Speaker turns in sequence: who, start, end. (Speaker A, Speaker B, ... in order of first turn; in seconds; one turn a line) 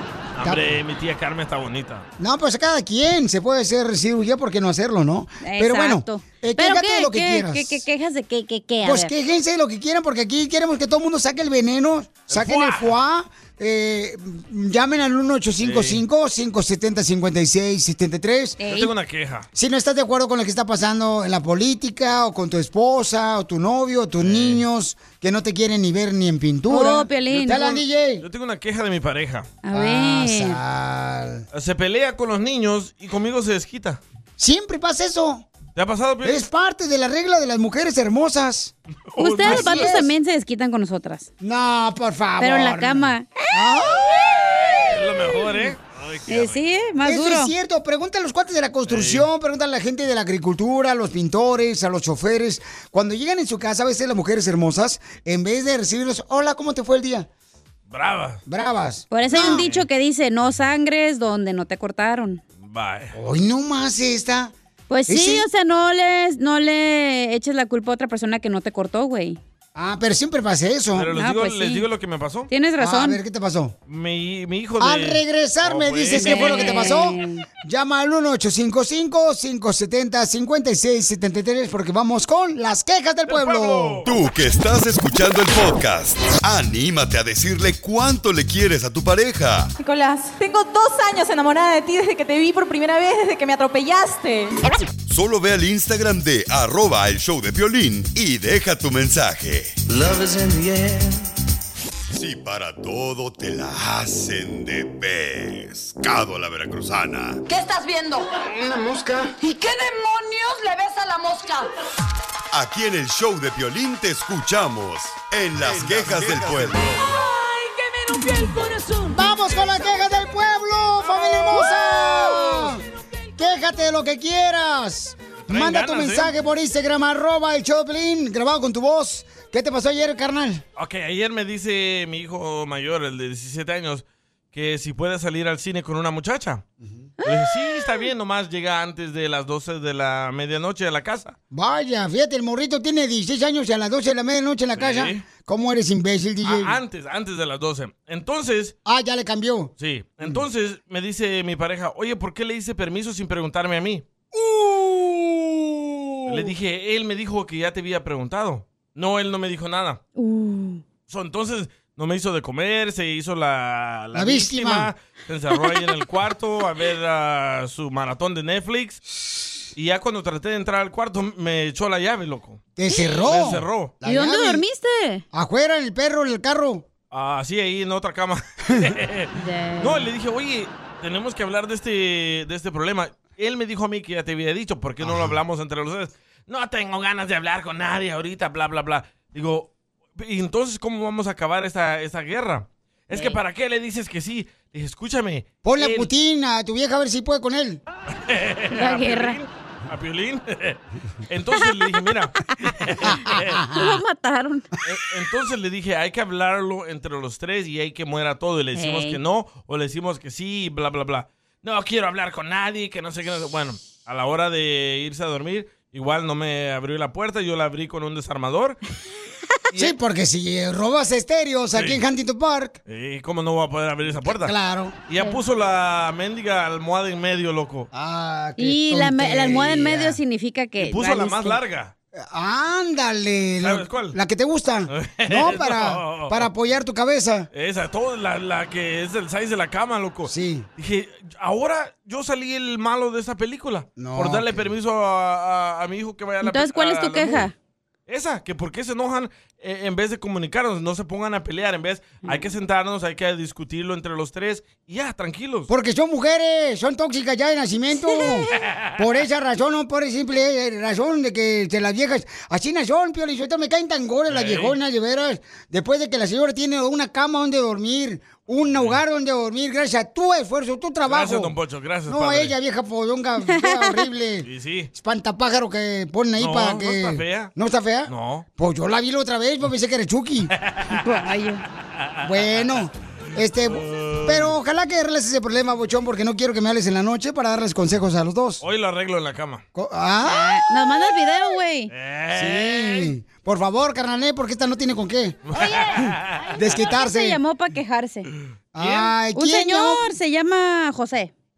Speaker A: 0.4-2.1
Speaker B: 2.2-7.8
Speaker C: 5.4-9.1
Speaker B: 8.8-18.6
Speaker A: 12.3-12.9
Speaker A: 15.6-16.0
Speaker C: 18.6-18.9
Speaker A: 18.6-19.5
Speaker B: 19.5-28.2
Speaker A: 24.2-24.6
Speaker C: 26.7-27.8
Speaker A: 27.4-29.5
Speaker C: 29.6-30.6
Speaker B: 29.7-31.5
Speaker A: 31.5-34.0
Speaker B: 34.4-35.5
Speaker A: 35.8-36.5
Speaker B: 36.2-38.7
Speaker A: 39.1-40.0
Speaker C: 39.2-41.3
Speaker B: 39.4-40.1
Speaker B: 41.4-44.2
Speaker C: 42.4-45.7
Speaker A: 44.7-46.6
Speaker C: 46.3-47.5
Speaker B: 47.0-57.3
Speaker A: 48.9-49.3
Speaker A: 57.9-58.4
Speaker B: 58.5-59.6
Speaker C: 59.1-62.4
Speaker A: 59.3-59.9
Speaker A: 62.6-63.1
Speaker B: 63.1-64.5
Speaker C: 64.9-69.4
Speaker B: 65.1-65.5
Speaker B: 69.8-71.1
Speaker A: 70.9-72.5
Speaker C: 71.2-71.8
Speaker C: 72.5-73.2
Speaker B: 72.8-73.8
Speaker A: 73.9-77.0
Speaker B: 74.8-84.0
Speaker C: 76.1-77.4
Speaker A: 83.3-84.1
Speaker D: 84.0-89.7
Speaker E: 89.9-94.5
Speaker C: 89.9-90.3
Speaker D: 95.1-99.8
Speaker D: 102.1-107.4
Speaker F: 107.5-111.7
Speaker D: 112.5-117.0
Speaker A: 115.7-116.4
Speaker C: 118.3-118.9
Speaker B: 119.1-122.8
Speaker B: 123.4-130.6
Speaker A: 125.5-126.3
Speaker A: 130.8-136.6
Speaker C: 137.2-138.1
Speaker A: 137.2-141.4
Speaker B: 141.5-146.7
Speaker A: 144.8-145.2
Speaker A: 146.4-148.8
Speaker B: 148.9-149.7
Speaker A: 149.8-154.1
Speaker B: 154.3-156.5
Speaker A: 156.3-160.0
Speaker C: 160.2-160.8
Speaker A: 161.1-169.0
Speaker B: 164.1-164.9
Speaker A: 169.8-172.7
Speaker B: 172.8-174.6
Speaker A: 173.2-173.9
Speaker C: 174.1-175.2
Speaker B: 175.3-176.9
Speaker A: 177.1-196.1
Speaker C: 179.3-180.1
Speaker B: 185.0-185.3
Speaker B: 195.7-197.8
Speaker A: 198.1-203.6
Speaker C: 198.7-199.4
Speaker C: 201.6-202.0
Speaker B: 203.1-204.0
Speaker C: 203.7-204.7
Speaker A: 204.8-218.8
Speaker C: 208.8-209.2
Speaker B: 219.8-222.8
Speaker A: 221.8-222.0
Speaker A: 222.9-224.5
Speaker B: 224.1-225.0
Speaker A: 225.1-227.9
Speaker B: 227.9-230.2
Speaker C: 228.6-231.6
Speaker A: 230.8-231.9
Speaker B: 232.2-237.5
Speaker A: 233.6-234.2
Speaker A: 234.9-236.5
Speaker A: 237.5-247.5
Speaker B: 240.3-240.7
Speaker B: 244.0-244.6
Speaker C: 246.4-247.5
Speaker A: 248.1-255.7
Speaker B: 255.7-271.5
Speaker A: 264.3-264.8
Speaker A: 271.1-272.6
Speaker B: 272.1-280.5
Speaker C: 273.5-274.1
Speaker A: 274.4-274.9
Speaker A: 276.4-277.5
Speaker A: 278.1-278.5
Speaker A: 280.6-281.0
Speaker C: 280.9-281.6
Speaker A: 282.0-282.8
Speaker B: 282.2-288.6
Speaker A: 283.7-284.6
Speaker A: 288.6-289.6
Speaker B: 289.7-290.6
Speaker C: 290.3-291.9
Speaker A: 291.9-293.1
Speaker B: 292.3-295.4
Speaker A: 295.5-296.5
Speaker C: 295.5-298.3
Speaker B: 295.9-297.4
Speaker B: 298.7-300.1
Speaker A: 298.8-299.1
Speaker C: 299.4-301.3